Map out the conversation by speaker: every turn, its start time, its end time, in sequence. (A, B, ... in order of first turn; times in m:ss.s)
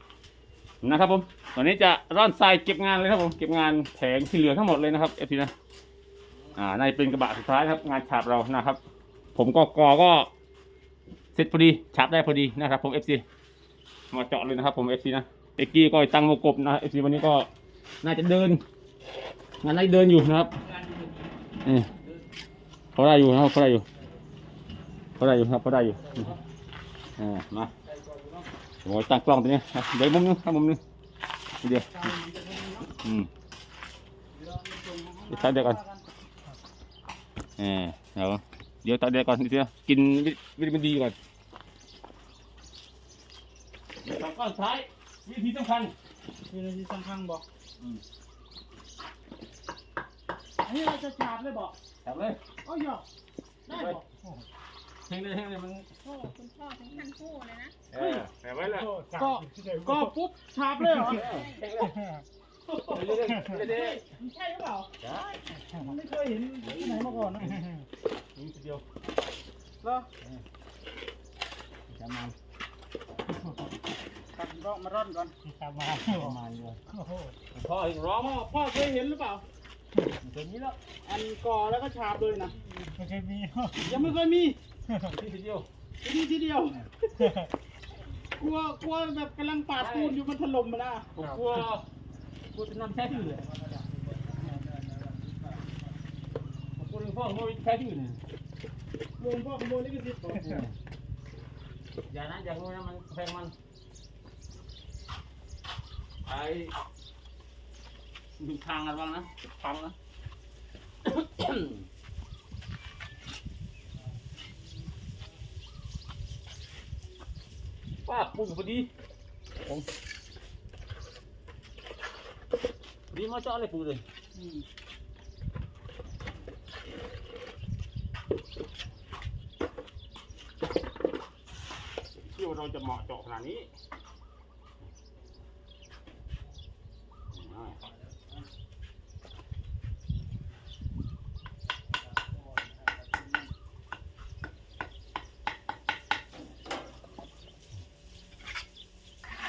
0:00.8-0:05.5 A
0:06.5-0:08.8 A
0:09.3-0:10.3 A
0:11.3-0:13.2 A
0:14.1-0:17.5 A
0:18.0-0:18.6 A
0:19.6-0:20.5 A
0:21.6-0:21.9 A
0:23.0-0:23.8 A
0:25.2-0:26.4 A
0:27.2-0:27.7 A
0:27.9-0:28.4 B
0:28.8-0:30.8 A
0:31.6-0:32.0 A
0:31.9-0:32.9 B
0:33.0-0:33.3 A
0:34.3-0:36.0 B
0:35.3-0:35.8 A
0:37.6-0:41.2 A
0:44.0-0:45.9 A
0:46.5-0:47.4 B
0:50.6-0:51.7 B
0:52.0-0:52.4 A
0:52.6-0:53.0 B
0:53.7-0:54.1 B
0:53.7-0:54.0 A
0:55.1-0:55.9 A
0:56.0-0:57.8 C
0:57.9-0:58.9 A
0:57.9-0:58.2 B
0:58.8-1:00.0 D
0:59.1-1:01.3 B
1:00.9-1:02.0 A
1:01.2-1:01.6 C
1:02.7-1:04.9 B
1:02.8-1:04.0 A
1:05.0-1:05.8 A
1:05.7-1:07.6 B
1:06.6-1:07.7 A
1:08.3-1:08.8 A
1:09.8-1:10.1 B
1:11.9-1:12.3 A
1:14.3-1:15.3 B
1:15.5-1:16.3 D
1:15.8-1:16.8 A
1:17.5-1:18.4 A
1:18.2-1:19.4 B
1:20.1-1:20.8 A
1:21.0-1:22.5 B
1:23.0-1:23.8 D
1:23.7-1:24.6 B
1:25.0-1:25.7 A
1:26.0-1:27.3 B
1:28.3-1:31.1 B
1:29.7-1:30.2 A
1:31.2-1:31.8 A
1:32.5-1:33.5 A
1:33.5-1:35.7 D
1:36.8-1:38.2 A
1:39.2-1:40.6 B
1:40.4-1:40.7 A
1:42.1-1:43.5 A
1:46.2-1:46.7 A
1:48.4-1:50.0 A
1:51.0-1:51.8 A
1:58.0-1:58.9 A
2:03.1-2:04.0 A
2:04.3-2:04.6 B
2:12.2-2:13.7 A
2:17.3-2:17.8 A